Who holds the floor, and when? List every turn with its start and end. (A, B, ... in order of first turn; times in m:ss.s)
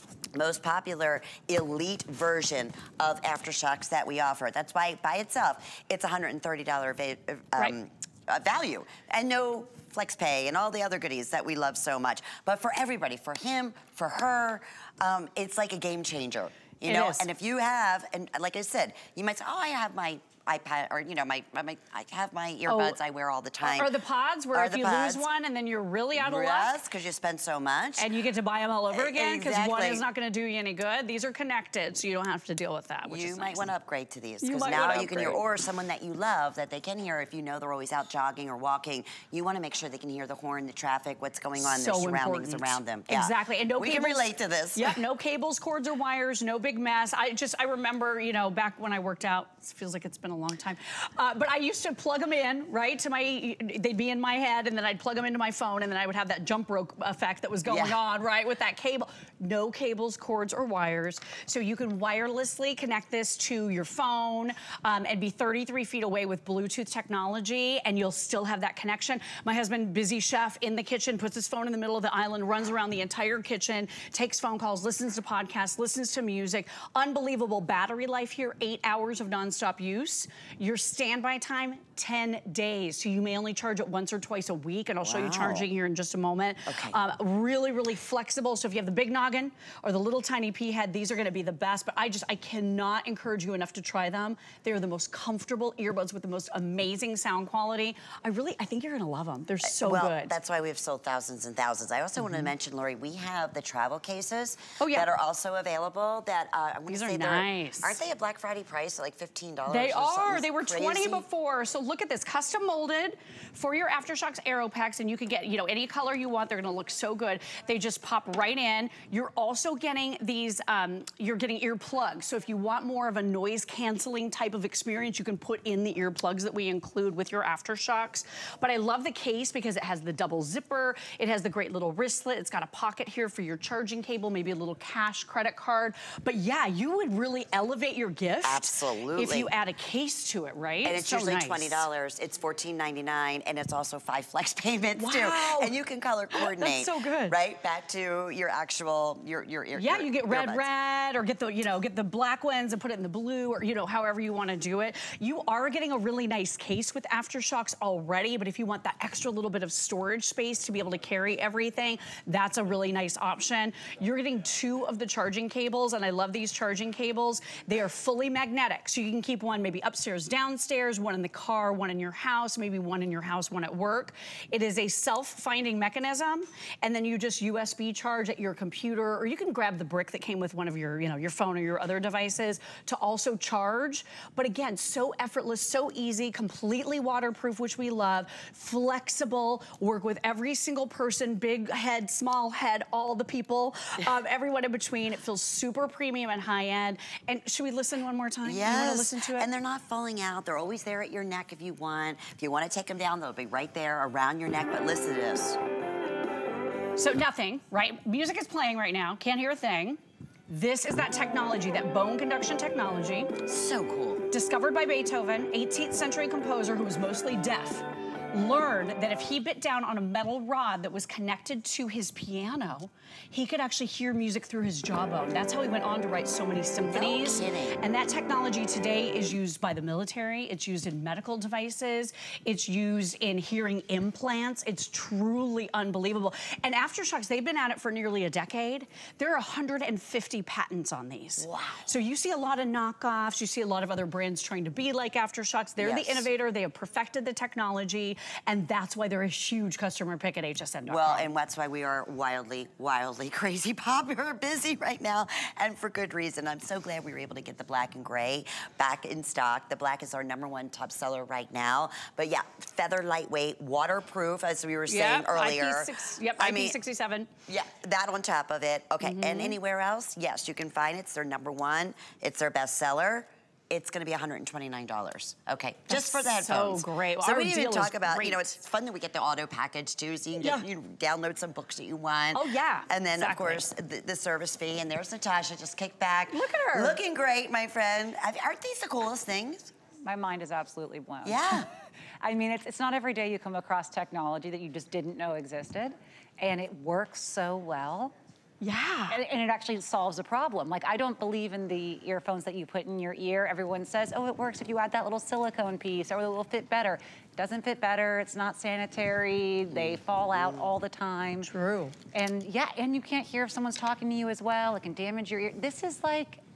0:00.3-0:23.9 A
0:16.8-0:17.2 B
0:22.7-0:23.0 B
0:23.6-0:26.7 B
0:24.5-0:25.3 A
0:26.2-0:28.1 A
0:28.0-0:33.7 B
0:28.9-0:30.0 A
0:33.0-0:45.0 A
0:34.4-0:35.4 B
0:41.6-1:40.3 B
0:57.6-0:58.0 A
1:25.0-1:25.6 A
1:26.7-1:27.0 A
1:39.6-1:51.2 A
1:42.2-1:42.5 B
1:44.8-1:45.1 B
1:46.9-1:48.0 B
1:49.7-2:21.8 B
2:18.4-2:19.5 A
2:20.8-2:30.6 A
2:25.0-2:25.7 B
2:26.3-2:27.4 B
2:29.8-3:19.5 B
3:18.4-3:25.6 A
3:27.0-3:33.3 B
3:33.4-3:34.2 A
3:34.3-4:11.3 B
3:46.8-3:47.8 A
4:01.4-4:01.9 A
4:05.8-4:06.3 A
4:10.9-4:26.8 A
4:24.9-4:27.3 B
4:27.5-4:49.7 A
4:29.0-4:29.6 B
4:35.9-4:38.4 B
4:40.4-4:40.7 B
4:42.3-4:43.6 B
4:46.3-4:47.0 B
4:50.0-4:51.6 C
4:51.2-4:51.7 A
4:52.2-4:58.1 C
4:58.6-4:59.2 B
4:59.1-5:11.5 C
5:09.7-5:10.6 A
5:11.4-5:11.9 B
5:12.1-5:16.4 C